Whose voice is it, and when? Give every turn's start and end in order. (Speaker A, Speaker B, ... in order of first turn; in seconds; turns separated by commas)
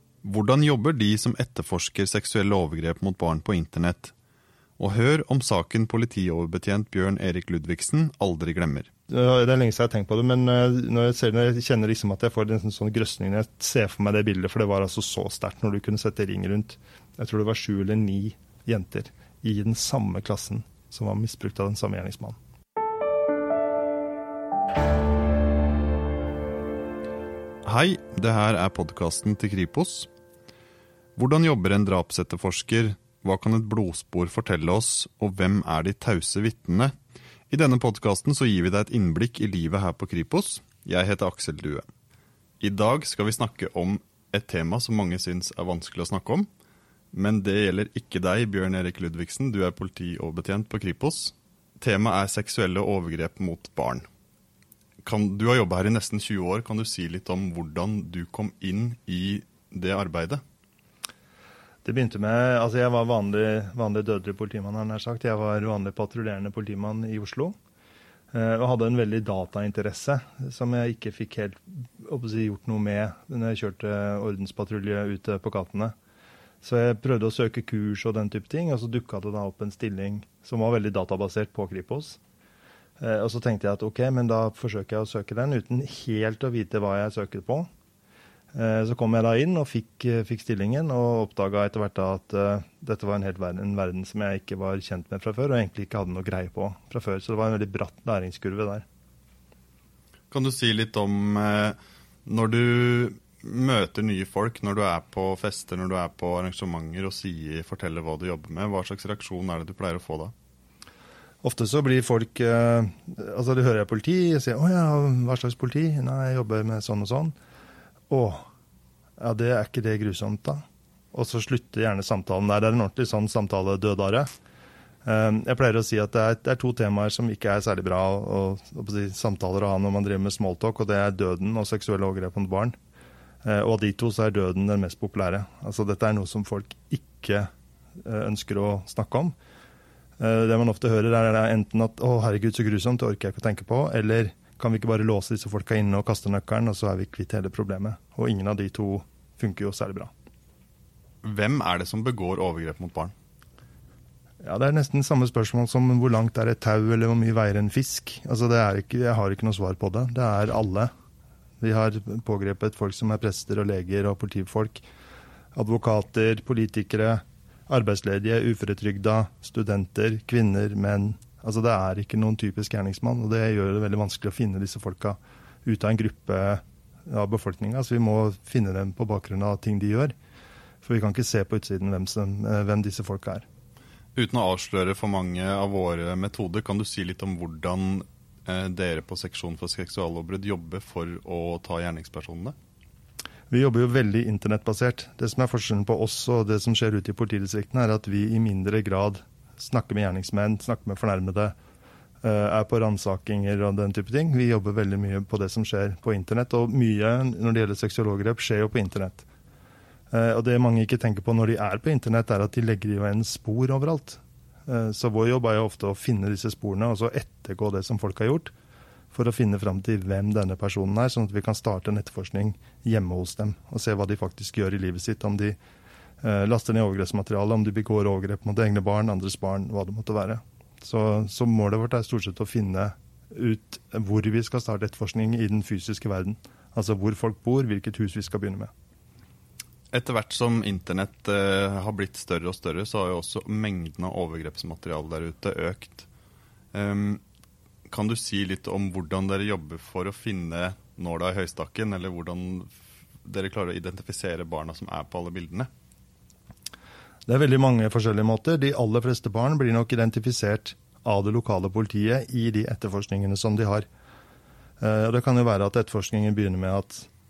Speaker A: 0.2-4.1, Speaker A: 4.8-8.9, Speaker B: 9.1-22.4, Speaker A: 27.6-30.1, Speaker A: 31.1-36.9, Speaker A: 37.5-41.9, Speaker A: 42.6-46.5, Speaker A: 47.1-54.0, Speaker A: 55.0-60.4, Speaker B: 61.8-67.5, Speaker B: 68.3-75.9, Speaker B: 76.6-82.2, Speaker B: 83.0-87.7, Speaker B: 88.5-98.8, Speaker A: 100.3-110.3, Speaker B: 111.4-117.3, Speaker B: 118.1-118.5, Speaker B: 119.2-124.3, Speaker B: 125.0-132.8, Speaker B: 133.4-137.5, Speaker B: 138.0-139.3, Speaker B: 140.2-150.1, Speaker A: 151.2-153.1, Speaker B: 154.4-160.9, Speaker B: 161.6-164.8, Speaker B: 165.5-180.1, Speaker B: 180.8-183.4, Speaker A: 184.1-192.5, Speaker B: 193.5-201.6, Speaker B: 202.2-209.2, Speaker B: 210.1-218.5, Speaker B: 219.1-225.6, Speaker B: 226.2-238.7, Speaker A: 239.9-246.1, Speaker A: 246.7-247.2, Speaker A: 247.9-255.7, Speaker B: 257.3-263.9, Speaker B: 264.8-267.1